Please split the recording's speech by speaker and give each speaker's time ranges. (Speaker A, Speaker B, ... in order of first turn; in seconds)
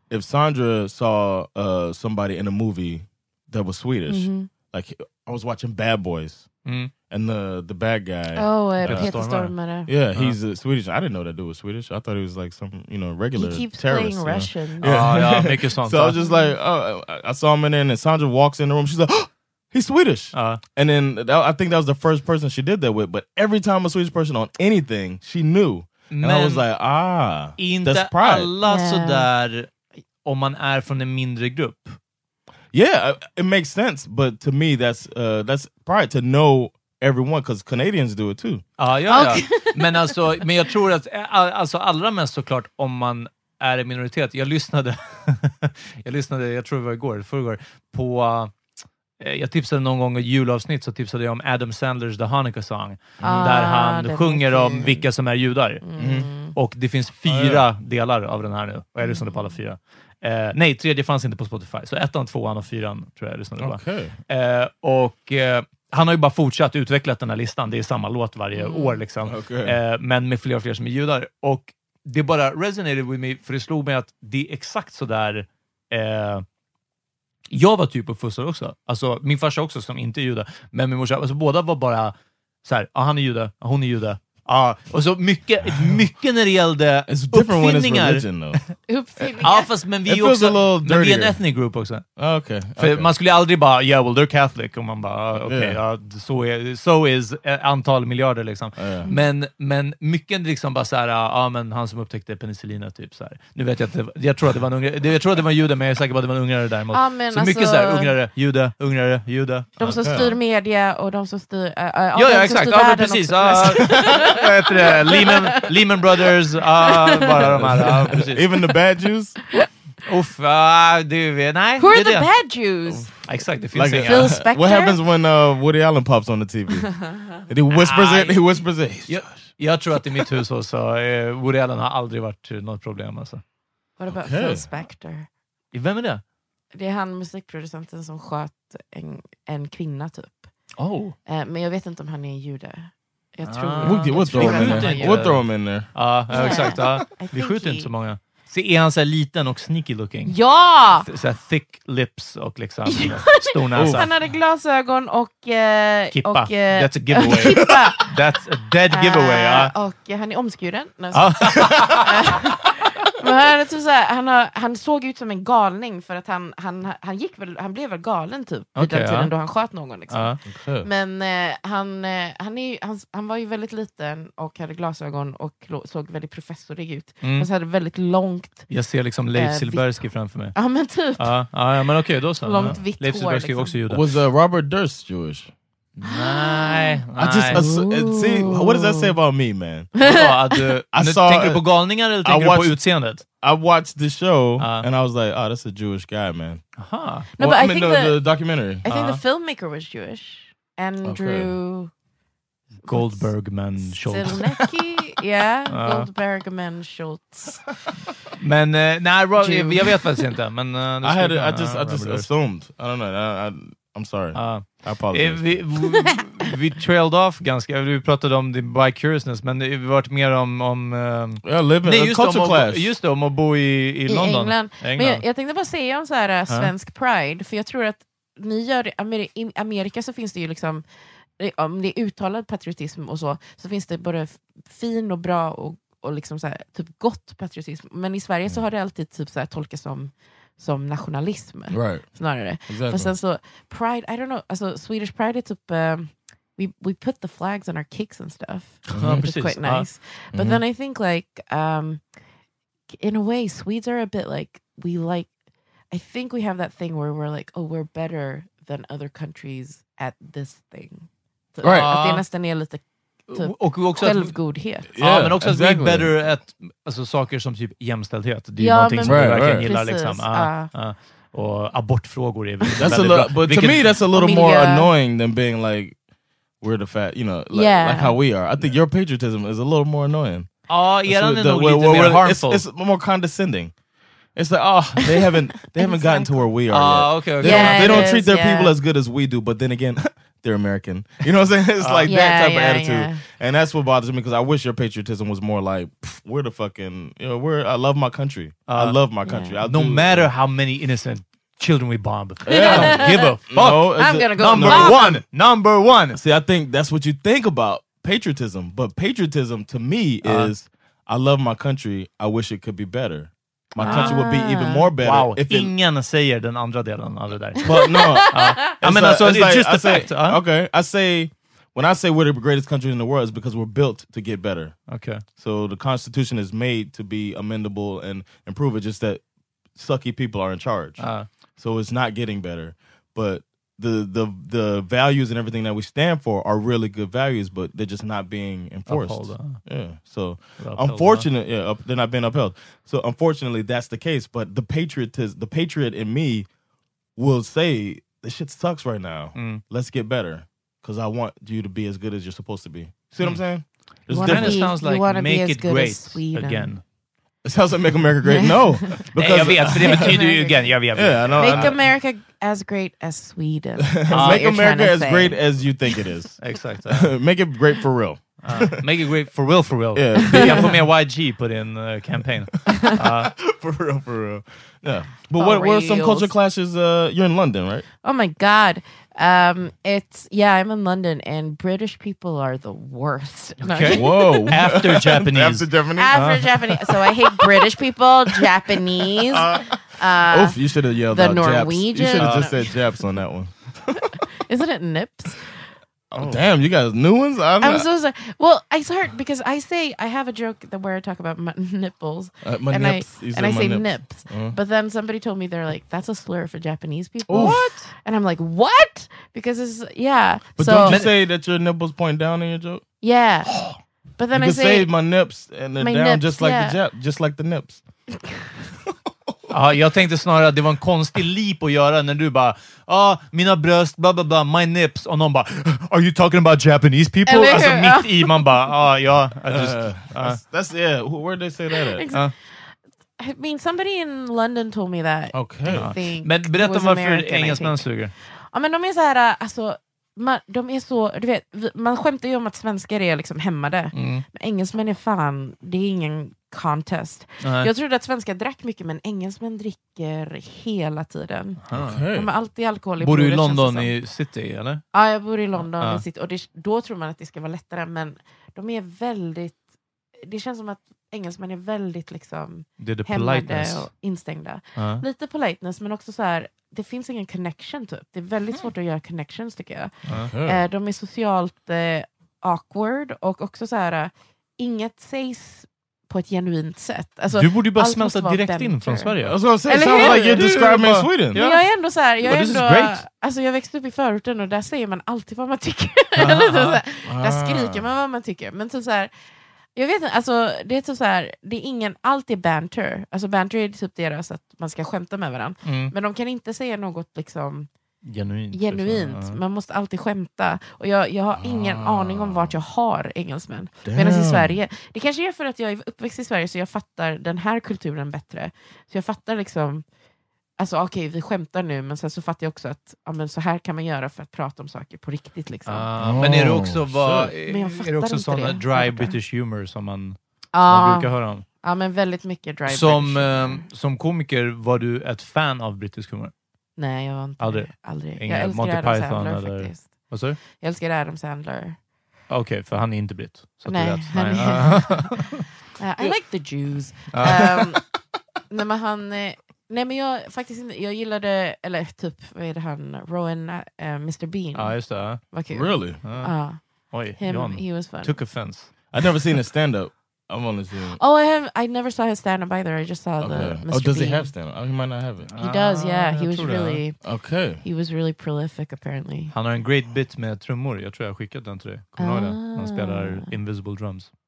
Speaker A: 0.1-6.5, 7.1-9.2, 9.9-28.5, 32.7-38.6, 53.2-53.5, 56.0-56.3, 57.3-57.6, 63.6-64.1, 69.2-69.8, 87.1-88.6, 90.1-91.4, 92.2-93.1, 95.4-95.8, 98.8-99.1, 109.8-110.4, 117.5-119.4, 123.7-129.3, 134.1-134.7, 143.8-146.9, 153.7-154.1, 170.5-170.9, 183.9-185.5, 187.2-190.1, 190.9-191.6, 192.2-192.8, 193.4-196.6, 197.4-198.8, 201.0-201.5, 211.0-215.6, 221.4-222.9, 241.7-242.1, 242.7-243.1, 248.9-249.3, 250.3-250.6, 261.6-261.9, 264.9-266.1, 269.0-269.7, 272.8-276.0, 276.6-280.5, 281.1-283.7, 284.4-300.3, 302.5-305.2, 306.1-315.7, 317.6-324.8, 325.4-329.2, 329.8-331.1, 331.6-346.5, 347.2-354.7, 357.4-360.3, 360.9-361.8, 363.9-368.8, 369.9-370.8, 373.1-377.9, 383.9-387.1, 389.1-394.1, 396.1-397.9, 402.4-404.6, 407.3-407.6, 410.6-412.8, 413.5-413.8, 414.3-417.8, 429.5-432.1, 435.3-435.9, 451.7-452.3, 470.1-470.6, 479.2-481.4, 487.1-487.9, 501.4-502.6, 503.8-504.6, 516.0-517.3, 537.2-537.6, 545.5-546.0, 548.9-551.0, 553.2-555.3, 557.0-557.6
Speaker B: 4.1-4.5, 8.4-9.9, 13.4-15.1, 16.2-16.5, 28.6-29.3, 39.1-39.9, 53.2-55.1, 55.8-56.5, 59.0-59.6, 68.5-69.0, 88.9-89.7, 106.9-108.1, 109.8-115.7, 116.8-117.4, 121.8-123.1, 124.0-125.0, 134.0-135.3, 136.7-140.5, 141.3-145.2, 146.3-147.9, 150.3-151.1, 152.9-158.1, 158.9-178.7, 179.3-181.4, 182.4-183.8, 186.1-187.0, 187.5-189.1, 190.0-190.6, 197.4-198.2, 198.8-201.9, 202.8-207.6, 209.4-210.2, 224.1-230.8, 231.4-252.0, 252.9-255.3, 255.9-264.9, 268.6-270.7, 274.1-274.9, 277.5-278.2, 285.2-286.5, 287.4-288.7, 292.1-293.2, 299.2-299.6, 302.5-305.2, 313.8-314.9, 317.7-318.5, 354.1-356.7, 358.3-359.0, 359.8-360.6, 361.4-365.4, 370.2-370.6, 372.7-373.0, 375.4-376.3, 378.0-384.5, 386.0-390.6, 391.1-392.8, 394.4-395.5, 397.6-411.0, 413.0-413.5, 414.2-414.9, 415.8-416.8, 427.3-428.4, 431.9-451.6, 452.1-453.9, 454.9-459.6, 460.2-479.1, 479.7-480.2, 481.3-489.1, 489.8-497.7, 498.5-509.9, 510.6-515.9, 517.5-519.2, 520.5-523.7, 526.8-531.8, 533.6-535.2, 535.8-537.8, 538.5-546.6, 547.2-548.2, 551.0-554.3, 555.4-557.0, 557.6-559.3, 562.0-563.3
Speaker C: 6.7-6.9, 8.8-9.6, 14.8-16.2, 20.3-20.6, 26.1-26.6, 27.6-29.7, 30.2-32.0, 38.8-48.5, 49.2-55.8, 56.5-76.5, 77.5-88.6, 89.4-92.0, 92.8-110.0, 112.2-118.5, 120.0-122.3, 123.3-124.3, 127.7-128.4, 129.1-133.4, 135.7-136.2, 140.8-141.2, 143.4-150.4, 151.0-154.1, 156.1-159.7, 161.1-162.1, 168.8-169.3, 170.1-170.4, 177.2-177.5, 178.7-184.1, 186.0-187.6, 190.0-193.2, 194.6-194.9, 196.8-197.3, 198.9-199.2, 202.9-204.4, 205.7-206.1, 208.4-212.3, 214.3-225.2, 248.9-249.9, 261.7-262.2, 263.3-264.4, 265.0-273.9, 280.7-282.6, 286.7-288.1, 291.8-292.1, 298.7-299.0, 299.6-306.2, 310.2-310.5, 313.8-314.2, 315.0-320.4, 324.9-325.2, 331.0-331.3, 338.9-339.6, 340.6-341.3, 349.4-349.6, 354.1-356.8, 359.2-361.8, 364.1-364.4, 366.4-367.1, 368.4-373.3, 383.6-386.5, 389.4-389.6, 392.1-392.6, 407.3-407.9, 410.9-411.1, 419.5-430.4, 435.7-438.1, 443.9-444.2, 447.4-447.7, 451.6-452.0, 453.0-454.8, 455.6-456.0, 462.8-463.9, 464.8-465.0, 477.3-481.7, 482.2-483.0, 486.2-486.8, 495.6-495.9, 498.1-499.4, 515.7-521.5, 522.7-526.3, 527.4-530.4, 532.3-535.5, 537.1-537.5, 544.5-545.2, 546.0-546.3, 546.9-548.7, 555.3-556.8, 559.3-564.1